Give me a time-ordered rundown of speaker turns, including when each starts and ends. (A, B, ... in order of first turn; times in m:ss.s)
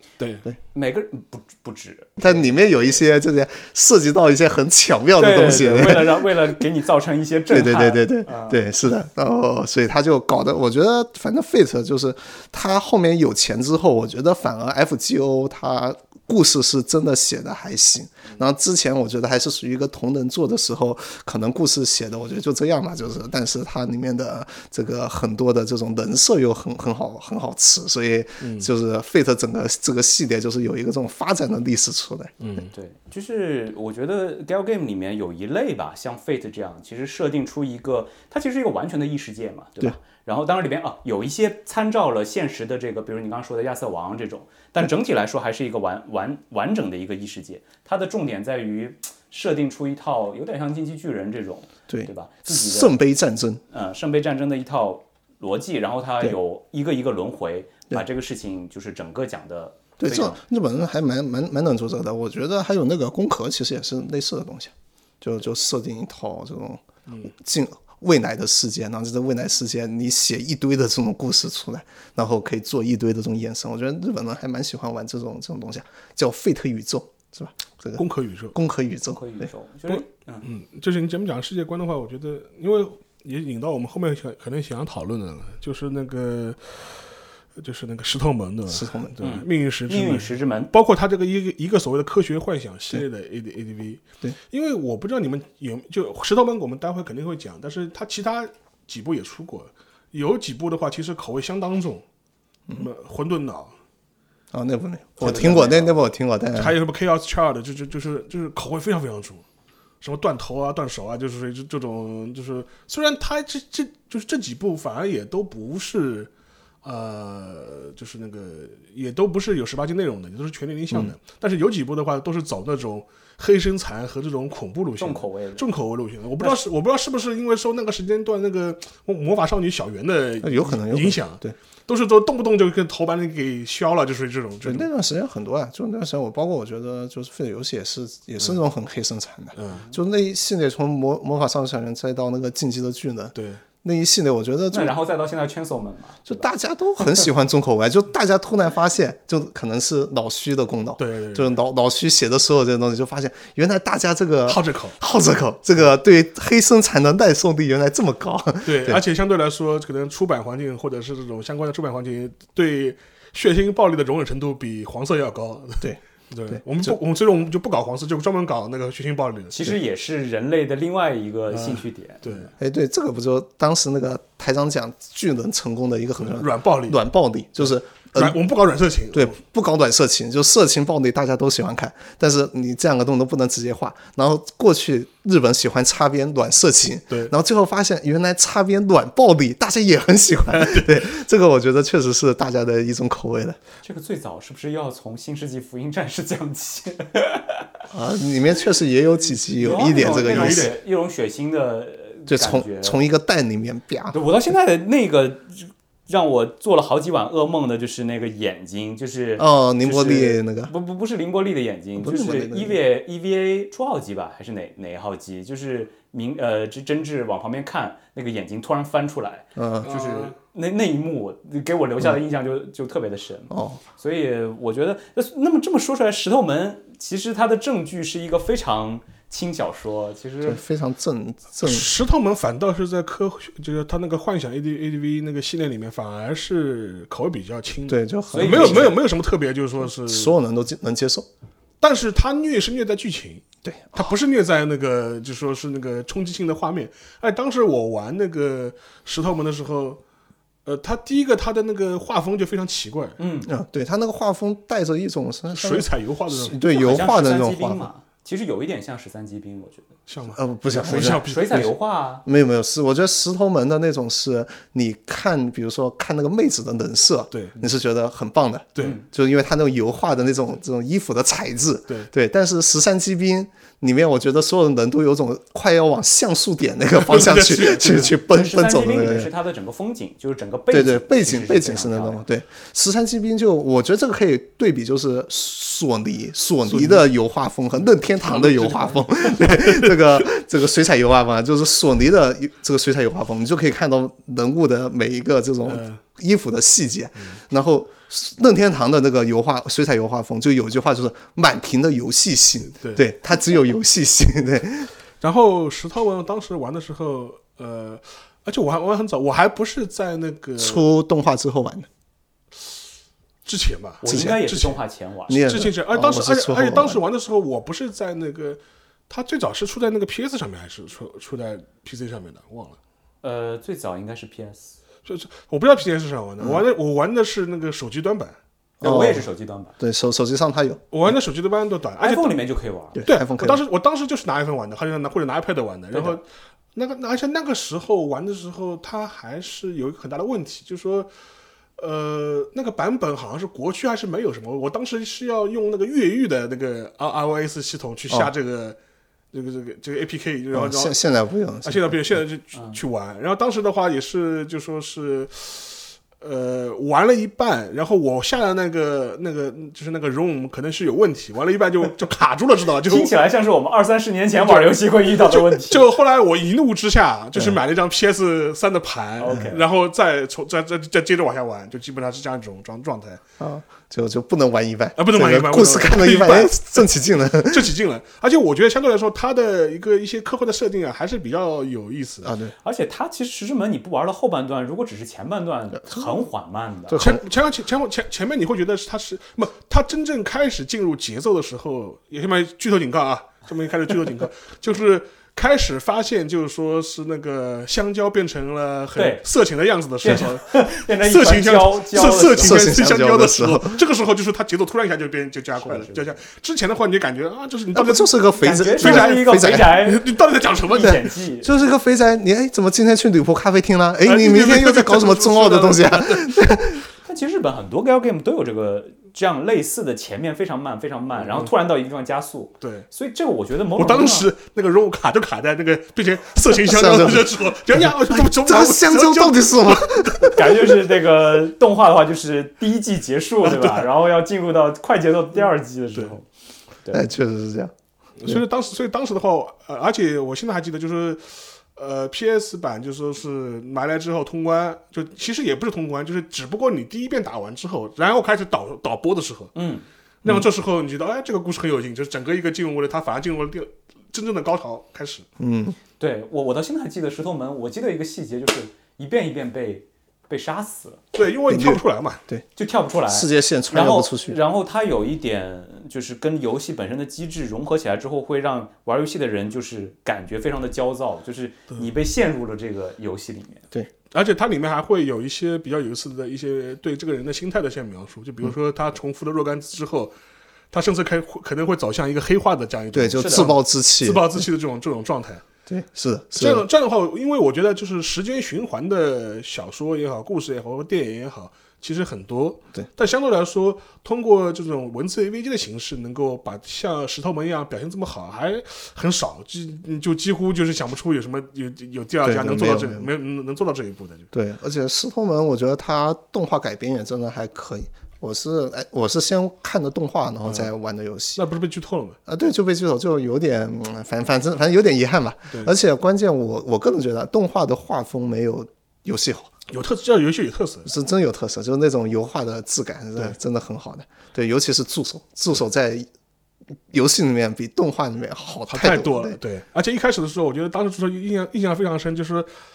0:00.2-0:00.4 A
0:00.7-0:02.4 B
0:02.2-0:06.6 C
0:05.2-0:08.7 B
0:07.5-0:32.3 C
0:28.4-0:28.7 A
0:32.4-0:32.7 A
0:32.7-0:53.0 B
0:51.9-0:53.6 C
0:53.7-1:00.4 B
1:00.0-1:19.5 C
1:18.0-1:18.6 A
1:19.1-1:20.5 B
1:19.9-1:27.0 A
1:27.6-1:42.0 A
1:28.7-1:29.1 C
1:29.2-1:30.7 B
1:42.8-1:43.7 A
1:44.5-1:46.8 C
1:45.2-1:46.0 A
1:46.5-1:49.4 A
1:50.0-1:56.3 A
1:56.8-2:14.9 A
2:05.0-2:05.7 B
2:10.4-2:11.6 C
2:14.6-2:24.9 C
2:19.6-2:19.8 A
2:23.4-2:23.6 A
2:24.7-2:26.5 B
2:26.3-2:39.0 C
2:31.0-2:31.6 A
2:34.5-2:35.0 A
2:38.6-2:49.7 A
2:45.8-2:47.0 C
2:49.5-2:52.5 B
2:51.5-2:52.5 A
2:52.6-2:58.4 C
2:56.2-2:57.0 A
2:57.6-2:59.4 A
2:59.1-3:13.6 C
3:10.5-3:10.9 A
3:13.8-3:17.6 B
3:17.9-3:20.7 C
3:19.6-3:23.0 B
3:19.6-3:20.7 A
3:22.3-3:24.2 C
3:24.1-3:50.6 B
3:29.4-3:30.7 C
3:32.0-3:32.8 C
3:39.6-3:39.9 C
3:39.8-3:40.4 A
3:43.5-3:43.8 C
3:50.4-3:51.9 C
3:51.6-4:00.4 A
3:57.9-3:59.0 C
3:58.3-3:59.0 B
4:00.0-4:01.3 C
4:01.8-4:03.4 A
4:03.6-4:04.1 C
4:04.0-4:10.0 A
4:10.6-4:13.2 A
4:13.2-4:13.5 B
4:13.4-4:17.9 C
4:15.5-4:16.6 A
4:16.7-4:19.9 B
4:20.1-4:21.7 A
4:20.3-4:21.7 C
4:20.8-4:22.2 B
4:22.2-4:39.3 C
4:27.3-4:27.7 A
4:28.8-4:29.0 B
4:37.0-4:38.2 A
4:38.3-4:42.2 B
4:40.7-5:04.9 C
4:46.7-4:47.1 A
4:48.2-4:50.3 A
4:55.7-4:56.0 A
5:02.8-5:03.0 A
5:05.2-5:10.9 A
5:10.6-5:11.9 C
5:13.5-5:14.8 A
5:14.0-5:15.5 B
5:14.0-5:14.4 C
5:15.3-5:17.0 C
5:15.4-5:22.8 A
5:23.2-5:24.7 B
5:25.1-5:28.4 A
5:26.4-5:26.6 C
5:28.8-5:29.3 C
5:28.8-5:29.8 B
5:29.8-5:30.8 C
5:30.9-5:32.3 A
5:32.0-5:33.0 B
5:33.0-5:33.6 C
5:33.0-5:36.2 A
5:36.8-5:41.1 A
5:41.8-5:48.8 A
5:49.3-5:51.0 A
5:50.5-5:52.2 C
5:51.6-6:03.1 A
6:02.9-6:05.8 B
6:04.4-6:13.2 A
6:09.2-6:09.6 B
6:13.4-6:17.7 C
6:15.0-6:22.4 A
6:22.2-6:22.5 C
6:22.6-6:27.0 B
6:25.8-6:26.2 C
6:26.9-6:27.2 C
6:27.0-6:51.0 A
6:39.0-6:39.2 B
6:40.0-6:42.7 B
6:42.4-6:43.8 C
6:45.6-6:46.1 B
6:47.7-6:49.8 C
6:48.4-6:50.1 B
6:50.7-6:51.5 B
6:50.8-6:56.8 C
6:54.0-6:56.4 A
6:57.0-7:04.3 B
7:01.2-7:01.5 A
7:02.6-7:02.9 A
7:03.8-7:10.4 A
7:06.6-7:10.5 C
7:10.3-7:16.3 B
7:13.4-7:13.9 A
7:16.9-7:17.7 C
7:18.2-7:29.5 A
7:29.6-7:29.8 B
7:30.2-7:35.2 A
7:35.4-7:35.8 C
7:36.0-7:41.0 B
7:41.2-7:42.2 A
7:41.5-7:42.5 C
7:42.6-7:53.6 B
7:43.1-7:44.4 C
7:54.1-8:00.1 A
8:00.7-8:05.4 A
8:02.9-8:04.4 C
8:03.2-8:03.5 B
8:05.7-8:06.6 C
8:06.3-8:24.3 A
8:22.2-8:23.1 C
8:24.3-8:31.4 C
8:30.4-8:30.7 A
8:31.4-8:32.2 A
8:32.3-8:39.5 C
8:39.7-8:40.9 A
8:40.8-8:46.1 C
8:46.9-8:49.4 C
8:48.7-8:52.5 A